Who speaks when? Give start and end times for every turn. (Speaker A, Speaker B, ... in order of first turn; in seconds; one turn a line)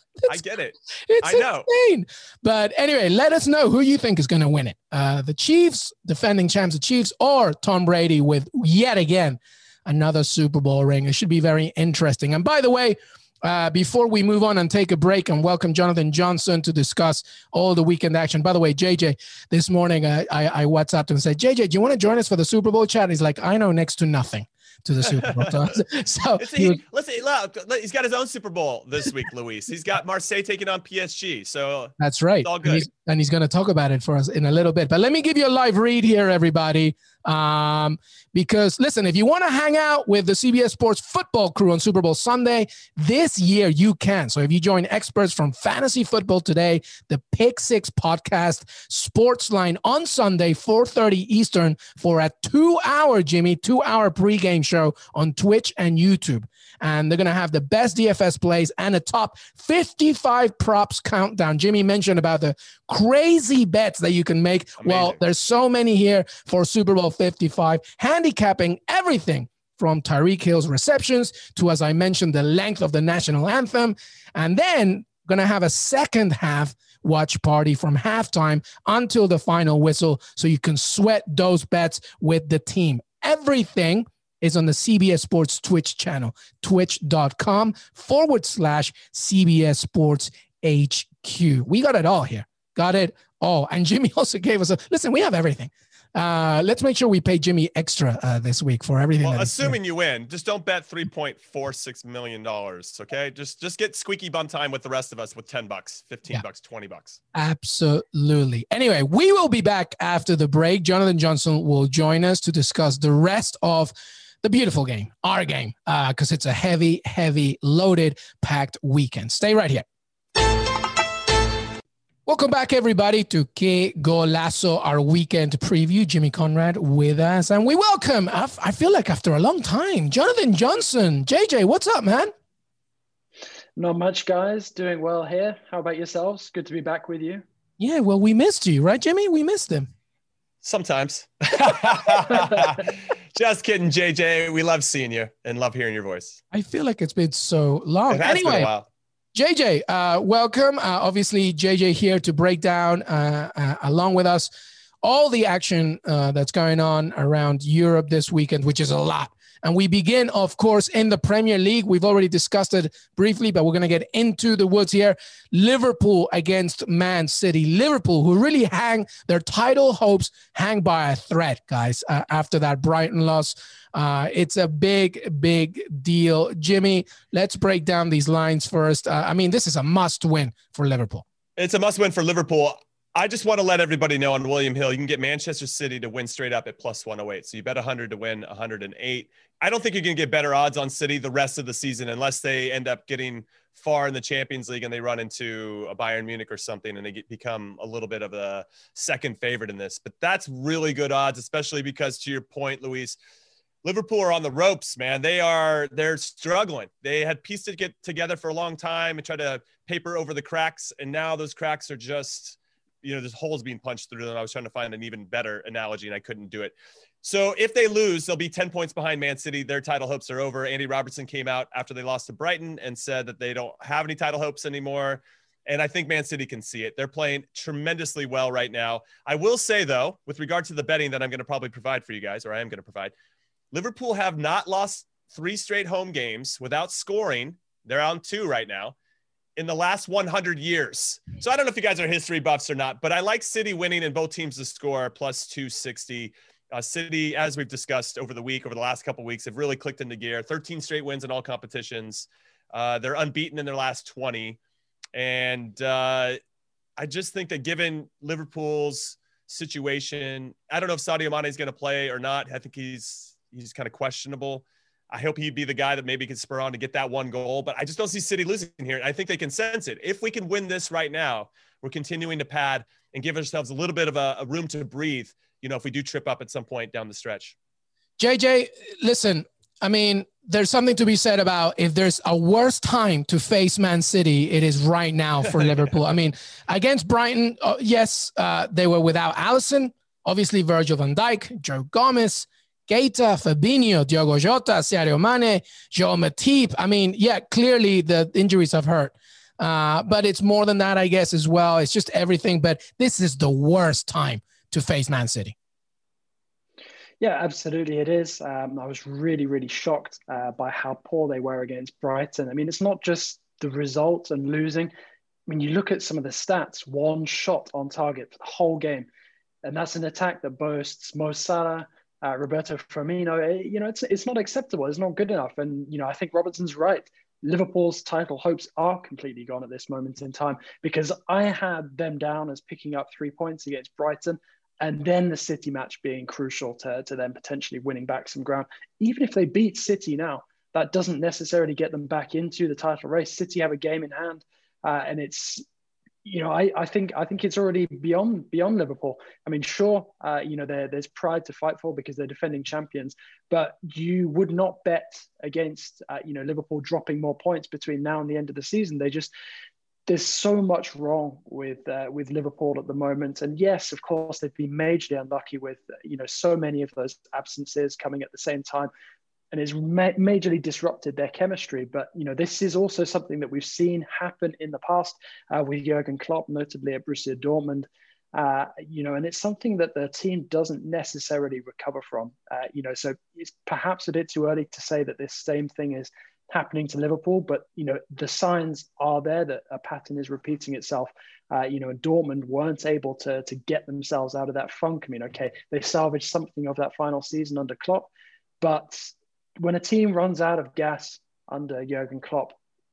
Speaker A: 0.3-1.7
Speaker B: 1.1-26.8
Speaker A: 25.1-25.8
Speaker A: 26.4-32.9
Speaker B: 32.0-99.8
Speaker A: 64.8-65.2
Speaker A: 99.2-107.2
Speaker B: 107.3-119.8
Speaker B: 122.3-132.3
Speaker C: 133.8-137.4
Speaker B: 137.8-139.9
Speaker A: 140.6-146.4
Speaker B: 146.5-148.7
Speaker A: 148.1-148.9
Speaker B: 149.3-154.5
Speaker B: 155.0-181.2
Speaker A: 181.6-203.2
Speaker A: 203.8-233.1
Speaker A: 233.7-238.9
Speaker A: 239.6-254.6
Speaker A: 255.1-256.4
Speaker A: 257.0-277.6
Speaker B: 278.2-305.5
Speaker C: 307.2-314.9
Speaker C: 315.5-319.1
Speaker C: 319.6-345.6
Speaker C: 346.2-359.3
Speaker C: 360.1-368.9
Speaker C: 369.5-398.1
Speaker C: 398.6-402.6